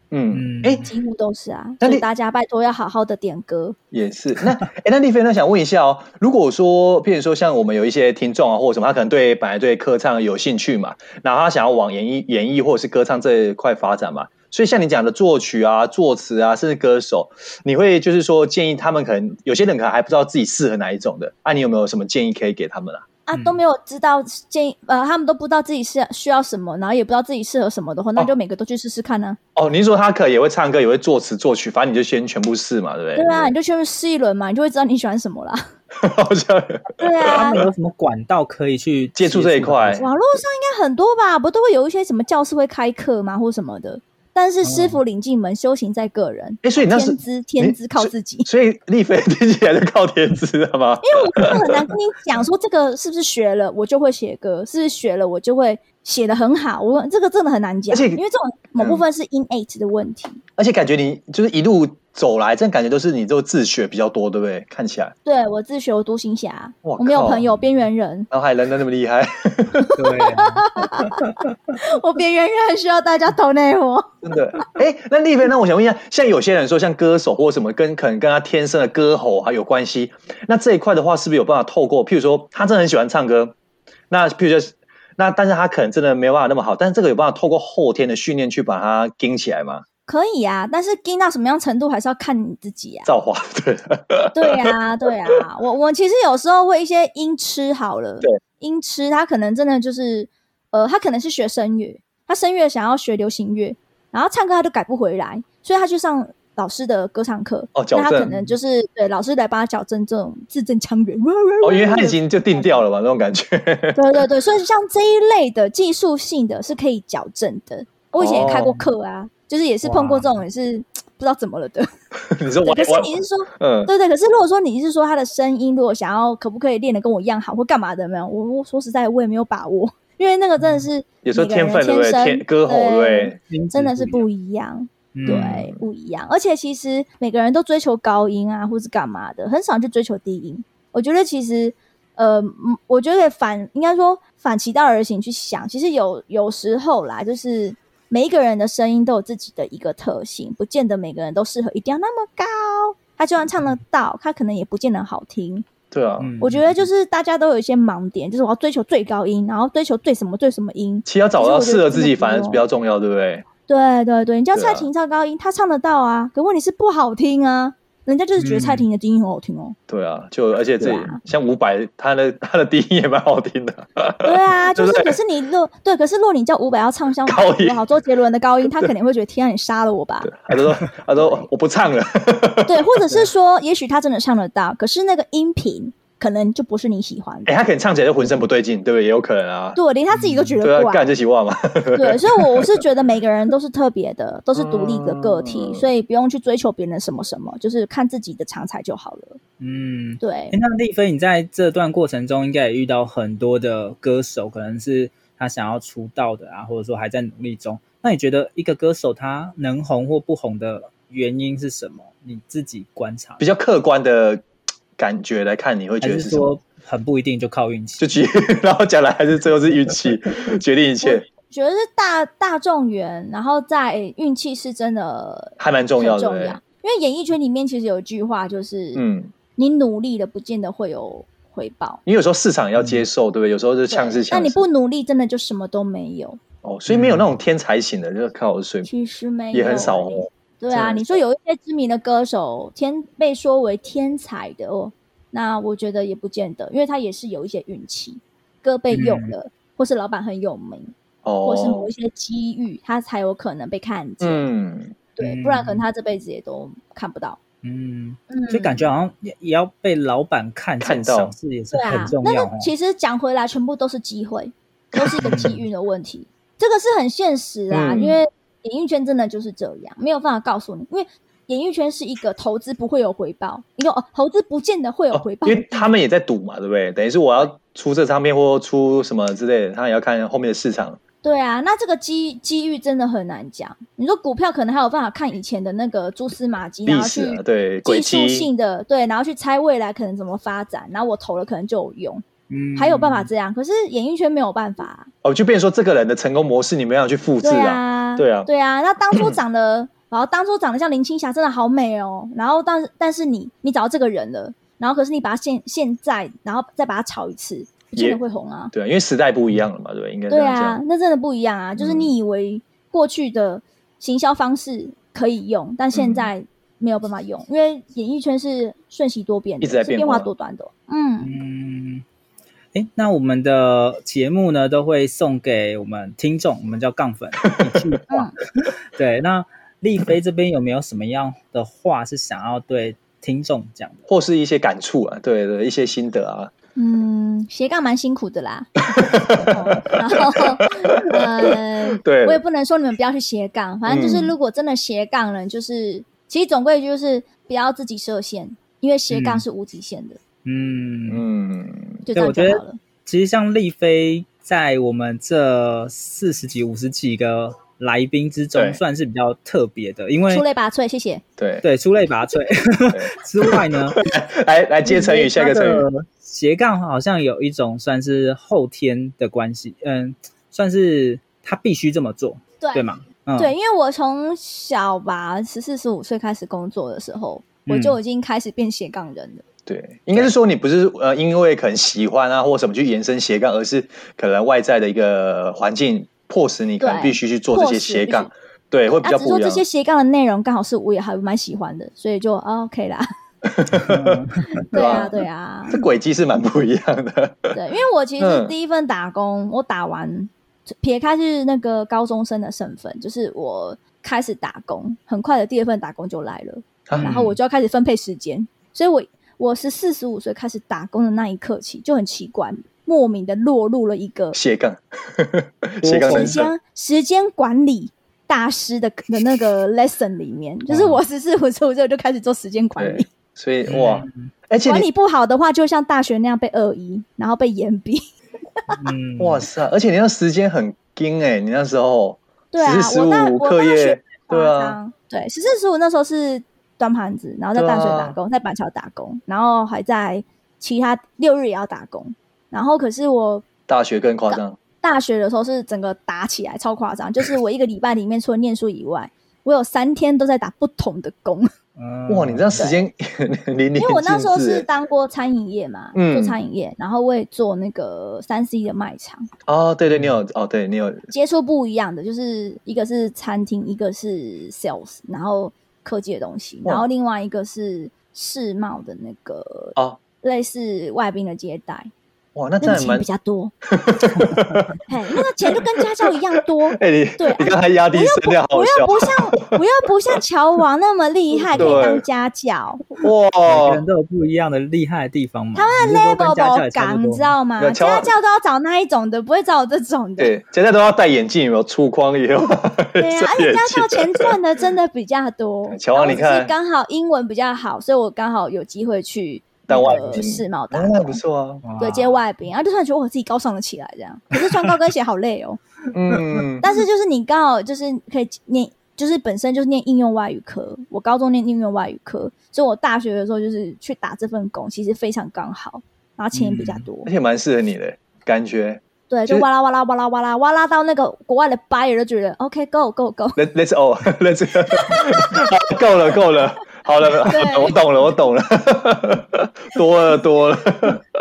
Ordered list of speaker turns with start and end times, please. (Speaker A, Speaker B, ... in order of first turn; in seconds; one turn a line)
Speaker A: 0.1-0.8
Speaker B: 0.3-0.9
Speaker C: 0.8-3.8
Speaker A: 1.8-2.1
Speaker A: 3.9-23.0
Speaker C: 23.3-29.4
Speaker B: 23.3-23.6
Speaker A: 29.6-33.5
Speaker C: 33.1-35.7
Speaker A: 36.0-36.9
Speaker C: 37.0-37.6
Speaker B: 37.2-40.1
Speaker A: 39.2-40.0
Speaker C: 40.0-48.5
Speaker B: 44.6-45.0
Speaker A: 46.6-51.8
Speaker C: 51.0-60.4
Speaker A: 57.9-58.2
Speaker A: 60.6-65.1
Speaker C: 65.2-68.3
Speaker A: 66.8-67.4
Speaker A: 68.3-69.9
Speaker C: 69.8-74.1
Speaker B: 70.0-71.3
Speaker A: 74.2-83.5
Speaker A: 84.1-89.8
Speaker C: 90.1-93.1
Speaker A: 93.1-94.7
Speaker C: 94.3-112.8
Speaker A: 107.8-108.3
Speaker B: 108.3-108.5
Speaker A: 111.6-114.0
Speaker C: 114.0-121.9
Speaker A: 118.2-118.8
Speaker B: 119.8-120.3
Speaker A: 122.3-123.9
Speaker C: 122.6-155.7
Speaker A: 131.2-133.4
Speaker B: 133.4-134.3
Speaker B: 135.1-135.6
Speaker A: 135.2-135.8
Speaker A: 155.9-156.3
Speaker B: 156.2-156.9
Speaker C: 156.4-162.6
Speaker A: 161.1-163.5
Speaker C: 163.7-169.8
Speaker A: 164.5-164.9
Speaker B: 168.4-168.9
Speaker A: 169.9-175.2
Speaker C: 170.8-171.2
Speaker C: 174.2-180.3
Speaker A: 177.3-177.8
Speaker A: 180.2-182.8
Speaker C: 181.2-181.4
Speaker C: 182.7-187.6
Speaker A: 187.5-189.8
Speaker C: 189.8-191.1
Speaker B: 190.1-190.6
Speaker A: 190.6-192.8
Speaker C: 191.9-199.4
Speaker A: 194.5-195.9
Speaker B: 199.6-213.5
Speaker C: 200.2-200.6
Speaker A: 213.4-214.4
Speaker A: 215.0-216.5
Speaker B: 216.0-218.1
Speaker A: 218.0-221.3
Speaker C: 221.0-229.1
Speaker A: 225.6-226.6
Speaker A: 228.9-229.3
Speaker C: 229.6-232.0
Speaker A: 232.1-234.6
Speaker B: 232.8-233.0
Speaker C: 233.9-236.4
Speaker A: 236.6-238.9
Speaker B: 236.9-237.3
Speaker C: 238.8-254.5
Speaker A: 239.5-241.2
Speaker B: 248.9-249.3
Speaker A: 251.2-251.9
Speaker A: 254.2-255.0
Speaker C: 255.2-257.4
Speaker B: 255.2-255.8
Speaker B: 257.6-262.7
Speaker C: 258.3-258.9
Speaker A: 260.8-261.4
Speaker C: 261.7-275.9
Speaker A: 264.9-265.3
Speaker B: 265.2-265.6
Speaker A: 267.7-268.2
Speaker A: 275.1-281.0
Speaker C: 281.2-292.2
Speaker A: 286.9-288.5
Speaker B: 292.5-293.3
Speaker C: 292.8-295.1
Speaker A: 295.2-298.5
Speaker C: 297.4-308.7
Speaker A: 307.9-308.2
Speaker A: 308.7-310.8
Speaker C: 310.3-321.3
Speaker A: 311.8-312.1
Speaker A: 315.9-316.3
Speaker A: 319.6-320.3
Speaker B: 321.2-322.0
Speaker B: 322.7-334.1
Speaker C: 328.1-328.4
Speaker A: 334.1-336.5
Speaker C: 336.8-350.2
Speaker A: 339.0-342.4
Speaker A: 343.9-344.4
Speaker B: 349.1-349.4
Speaker B: 350.4-351.2
Speaker A: 351.1-352.0
Speaker C: 352.1-352.8
Speaker B: 352.1-360.5
Speaker A: 358.5-358.8
Speaker C: 360.3-361.2
Speaker A: 361.4-361.6
Speaker B: 361.6-364.1
Speaker A: 362.9-365.9
Speaker B: 364.9-373.5
Speaker C: 373.4-379.4
Speaker B: 377.7-378.0
Speaker A: 379.7-389.6
Speaker C: 386.8-388.3
Speaker C: 388.9-393.1
Speaker A: 393.5-395.1
Speaker B: 393.7-394.7
Speaker C: 394.7-395.8
Speaker A: 395.7-397.6
Speaker C: 397.5-414.4
Speaker A: 398.2-398.5
Speaker A: 406.9-407.2
Speaker B: 407.0-407.4
Speaker A: 414.3-416.5
Speaker B: 415.8-416.4
Speaker C: 416.0-423.1
Speaker B: 420.7-421.0
Speaker A: 422.8-424.9
Speaker B: 423.7-424.3
Speaker C: 424.6-428.0
Speaker B: 428.7-429.5
Speaker A: 429.2-434.8
Speaker C: 432.5-443.4
Speaker A: 437.6-438.2
Speaker A: 443.7-444.6
Speaker C: 444.3-451.5
Speaker B: 451.8-452.7
Speaker A: 452.1-454.7
Speaker C: 452.6-452.9
Speaker C: 453.8-459.2
Speaker A: 455.9-456.4
Speaker A: 459.5-461.1
Speaker C: 461.1-471.9
Speaker A: 472.4-473.1
Speaker C: 472.6-473.5
Speaker A: 473.7-474.7
Speaker C: 474.9-482.9
Speaker A: 476.8-479.1
Speaker A: 481.6-482.0
Speaker A: 483.0-483.8
Speaker B: 483.4-487.4
Speaker C: 485.6-490.3
Speaker A: 487.6-488.1
Speaker A: 490.2-494.4
Speaker C: 493.0-501.2
Speaker A: 495.7-496.5
Speaker A: 499.7-501.6
Speaker B: 499.8-500.2
Speaker B: 501.6-502.2
Speaker C: 501.8-505.6
Speaker A: 505.9-506.8
Speaker C: 506.6-517.1
Speaker B: 516.3-516.9
Speaker A: 517.1-519.5
Speaker C: 519.1-523.4
Speaker A: 523.4-531.0
Speaker C: 524.7-525.5
Speaker C: 527.3-527.8